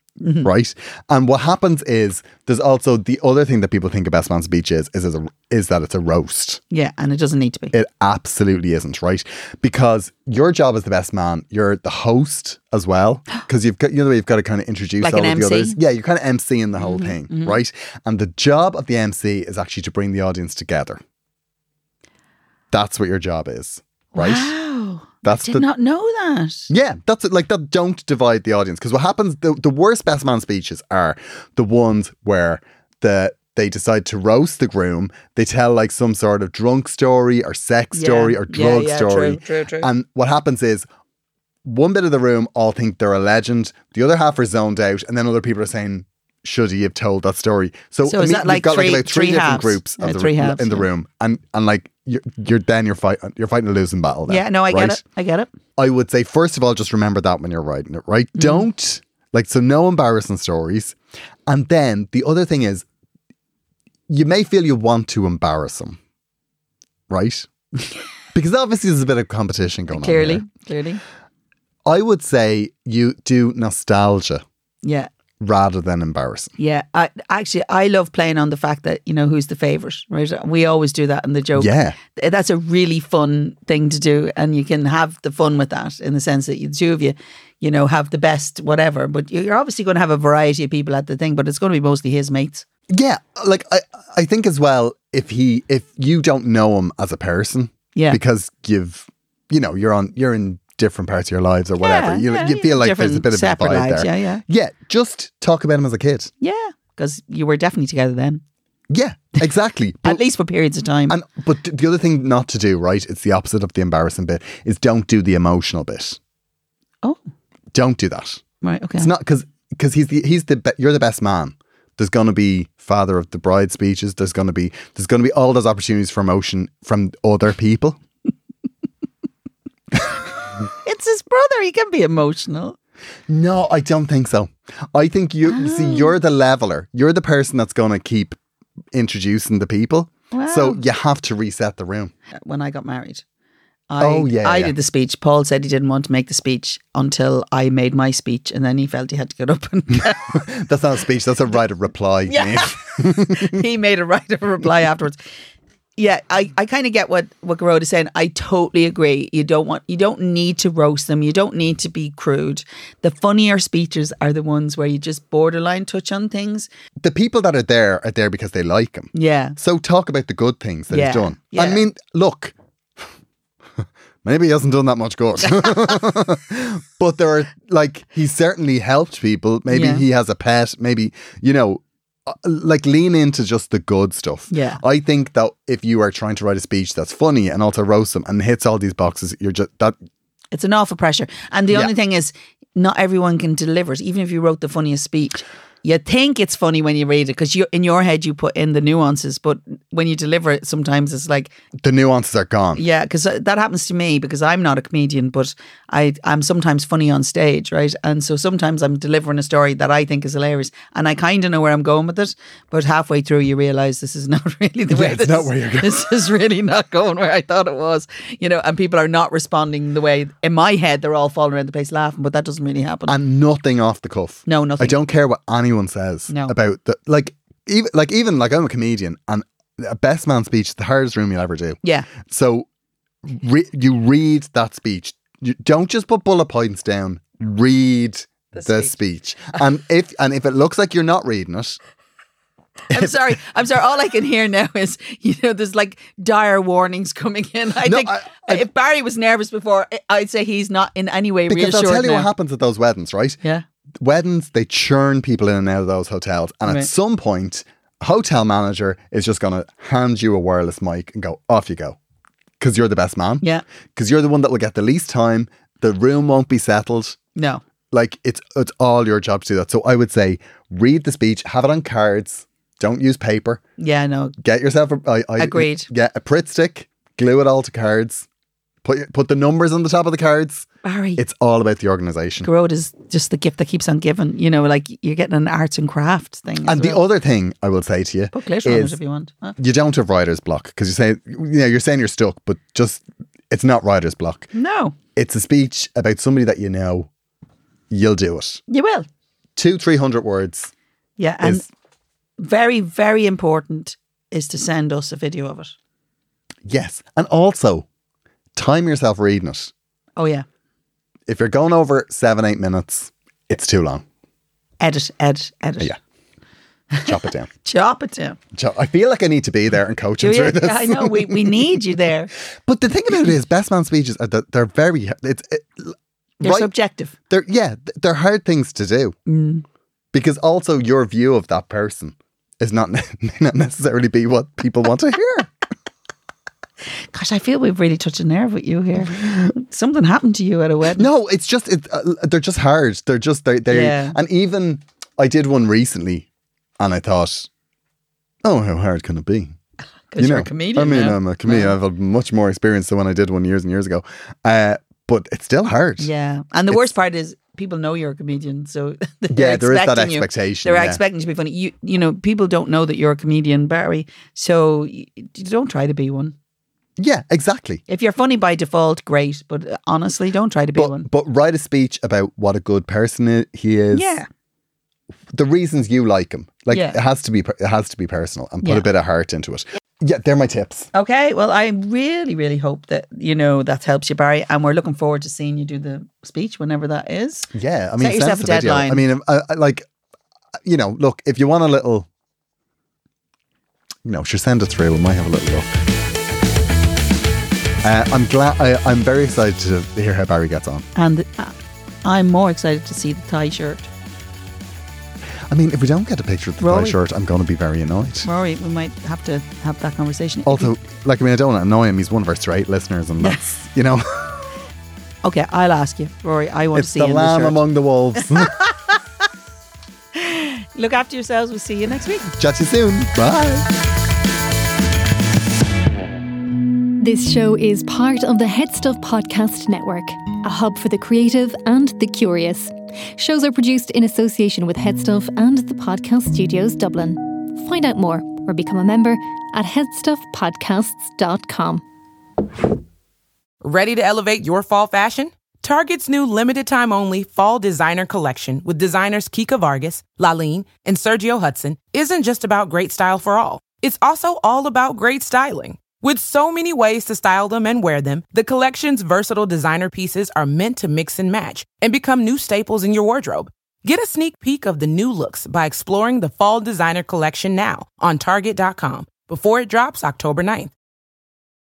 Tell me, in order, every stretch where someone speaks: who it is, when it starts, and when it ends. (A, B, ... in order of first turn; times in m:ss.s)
0:00.2-0:00.5 A
0:00.4-0:06.6 B
0:06.7-0:07.7 A
0:07.7-0:21.0 B
0:15.0-0:15.8 A
0:16.8-0:17.6 A
0:22.7-0:24.5 B
0:24.1-0:26.7 A
0:25.2-0:25.7 B
0:26.7-0:40.9 B
0:37.9-0:39.9 A
0:41.6-0:55.0 B
0:48.0-0:50.9 A
0:54.3-0:55.5 A
0:55.8-1:01.0 B
0:58.4-0:58.7 A
1:01.5-1:02.8 B
1:04.1-1:06.0 B
1:07.1-1:07.5 B
1:08.3-1:10.4 B
1:09.9-1:11.0 A
1:11.8-1:14.4 B
1:14.8-1:15.1 A
1:15.4-1:16.6 B
1:16.6-1:32.6 A
1:21.6-1:22.0 B
1:32.9-1:46.3 B
1:38.0-1:38.2 A
1:41.8-1:44.4 A
1:46.4-1:48.4 A
1:48.9-1:50.2 B
1:50.0-1:51.2 A
1:51.1-1:56.2 B
1:57.7-1:58.4 B
1:58.6-1:59.1 A
1:59.0-2:08.0 B
2:10.8-2:12.8 A
2:13.3-2:18.4 B
2:15.5-2:16.1 A
2:18.9-2:22.1 B
2:20.3-2:20.8 A
2:22.4-2:23.2 A
2:23.9-2:30.4 A
2:24.0-2:24.7 B
2:30.3-2:33.6 B
2:32.3-2:35.2 A
2:36.0-2:46.7 A
2:47.0-2:53.1 B
2:49.1-2:49.6 A
2:50.9-2:51.8 A
2:53.8-3:10.0 B
2:55.5-2:56.0 A
2:59.7-3:00.0 A
3:04.5-3:04.8 A
3:10.5-3:21.5 A
3:21.8-3:22.8 B
3:22.8-3:43.2 A
3:34.9-3:36.1 B
3:43.1-3:52.7 B
3:44.5-3:45.0 A
3:46.3-3:46.6 A
3:53.2-4:01.8 B
3:58.5-3:58.9 A
4:02.9-4:12.3 A
4:02.9-4:03.2 B
4:07.8-4:08.7 B
4:11.5-4:13.4 B
4:14.0-4:22.0 B
4:22.6-4:23.4 B
4:24.0-4:27.2 B
4:27.4-4:27.6 A
4:27.9-4:33.6 B
4:33.8-4:34.4 A
4:34.4-4:38.3 B
4:35.4-4:35.9 A
4:38.8-4:42.5 B
4:40.8-4:41.2 A
4:42.4-4:47.0 A
4:46.6-4:49.0 B
4:48.3-4:49.6 A
4:49.6-4:54.5 B
4:54.5-4:55.0 A
4:55.1-4:57.1 B
4:57.9-4:58.6 B
4:58.7-4:59.1 A
4:59.6-5:00.7 B
5:01.2-5:01.7 A
5:02.4-5:05.7 A
5:06.7-5:07.9 B
5:08.6-5:09.7 B
5:10.2-5:10.4 A
5:11.3-5:14.0 B
5:14.8-5:16.0 A
5:16.9-5:18.4 A
5:17.0-5:17.5 B
5:18.5-5:21.8 B
5:20.2-5:22.3 A
5:22.6-5:26.7 B
5:26.4-5:27.1 A
5:27.3-5:29.2 B
5:29.3-5:29.6 A
5:30.1-5:35.5 B
5:37.1-5:41.1 A
5:40.9-5:46.3 B
5:43.7-5:44.2 A
5:46.8-5:47.5 B
5:48.4-5:49.6 B
5:50.1-5:51.8 A
5:50.2-5:56.1 B
5:56.0-6:06.4 A
5:59.3-6:01.0 B
6:07.0-6:07.8 B
6:07.9-6:11.1 A
6:10.8-6:14.2 B
6:13.9-6:14.3 A
6:15.3-6:20.9 B
6:16.7-6:17.0 A
6:18.6-6:18.9 A
6:20.9-6:29.0 A
6:27.5-6:29.9 B
6:30.6-6:32.1 B
6:34.0-6:35.7 B
6:37.8-6:40.8 B
6:41.0-6:43.9 A
6:45.5-6:48.3 B
6:46.6-6:47.0 A
6:48.2-6:50.7 A
6:50.4-6:54.4 B
6:55.2-6:57.6 A
6:56.7-6:58.6 B
7:00.1-7:02.3 A
7:02.4-7:03.7 B
7:07.0-7:21.8 C
7:23.6-7:50.7 D